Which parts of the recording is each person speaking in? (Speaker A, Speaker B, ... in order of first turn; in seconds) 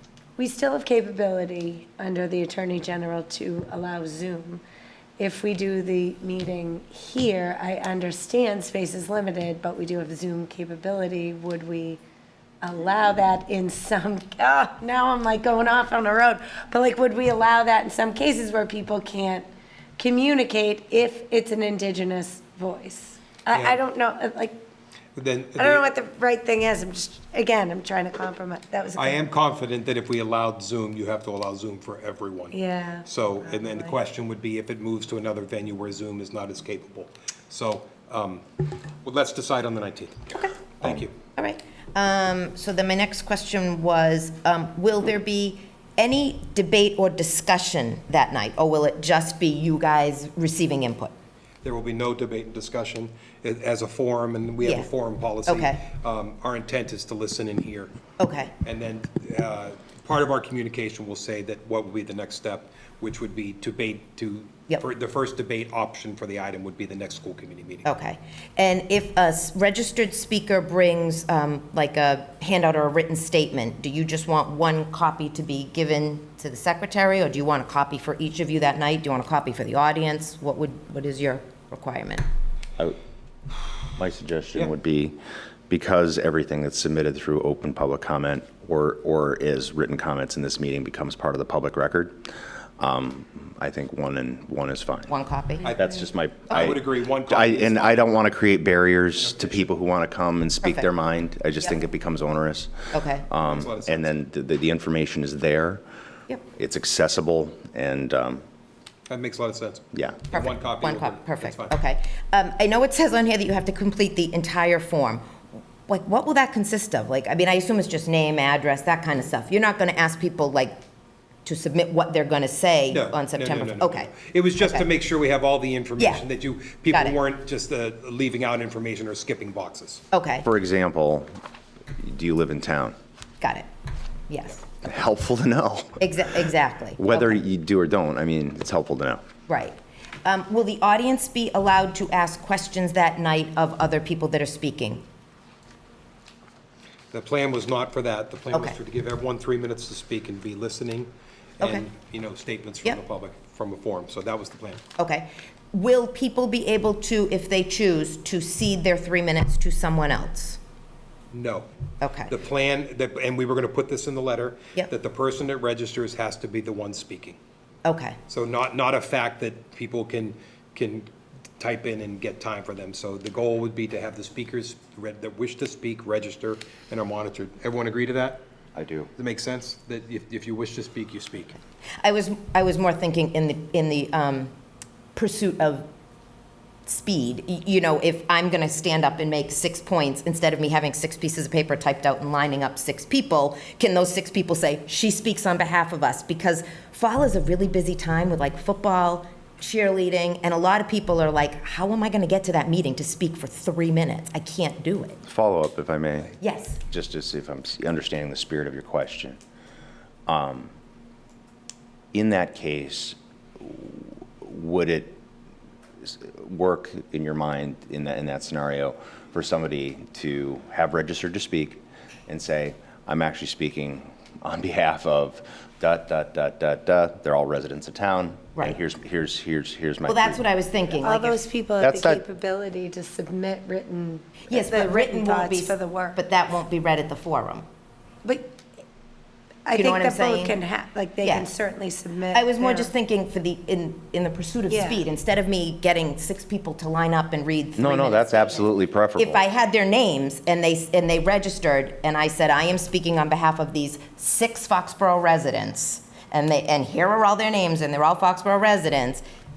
Speaker A: 0.4-4.6, 5.2-12.0, 12.6-19.5, 20.0-24.6, 25.6-29.3, 32.5-33.1, 231.0-236.2, 238.2-238.5, 239.7-242.9, 244.7-245.0
Speaker B: 23.5-23.8, 25.2-25.8, 29.0-38.5, 39.0-41.1, 51.6-57.9, 58.6-67.9, 95.6-96.0, 96.5-98.1, 99.3-99.6, 103.4-104.1, 109.1-111.8, 122.9-130.0, 147.1-154.8, 161.3-161.7, 162.3-167.4, 168.3-178.4, 179.2-181.6
Speaker C: 41.4-51.1, 54.6-54.9, 55.5-55.8, 58.2-58.5, 67.8-82.2, 95.1-95.8, 96.5-96.8, 102.9-103.2, 110.3-115.2, 115.9-120.8, 121.5-124.9, 126.0-126.3, 126.9-127.2, 130.1-130.5, 133.4-133.7, 134.3-134.6, 136.0-137.4, 139.5-145.0, 151.6-151.9, 155.0-160.6, 162.0-162.3, 167.8-168.2, 182.0-184.5, 185.2-185.9, 186.9-205.2, 206.4-206.8, 230.1-231.4, 234.5-237.7, 239.7-240.6, 241.2-241.5, 242.3-259.2
Speaker D: 84.0-85.2, 85.7-92.2, 92.8-95.2, 95.7-105.8, 106.5-108.4, 109.9-110.3, 130.4-131.3, 132.0-132.9, 134.8-136.3, 137.0-139.2, 178.8-179.1, 205.3-209.4, 210.3-210.7, 212.1-215.2, 216.0-230.4, 231.8-232.2, 247.8-249.4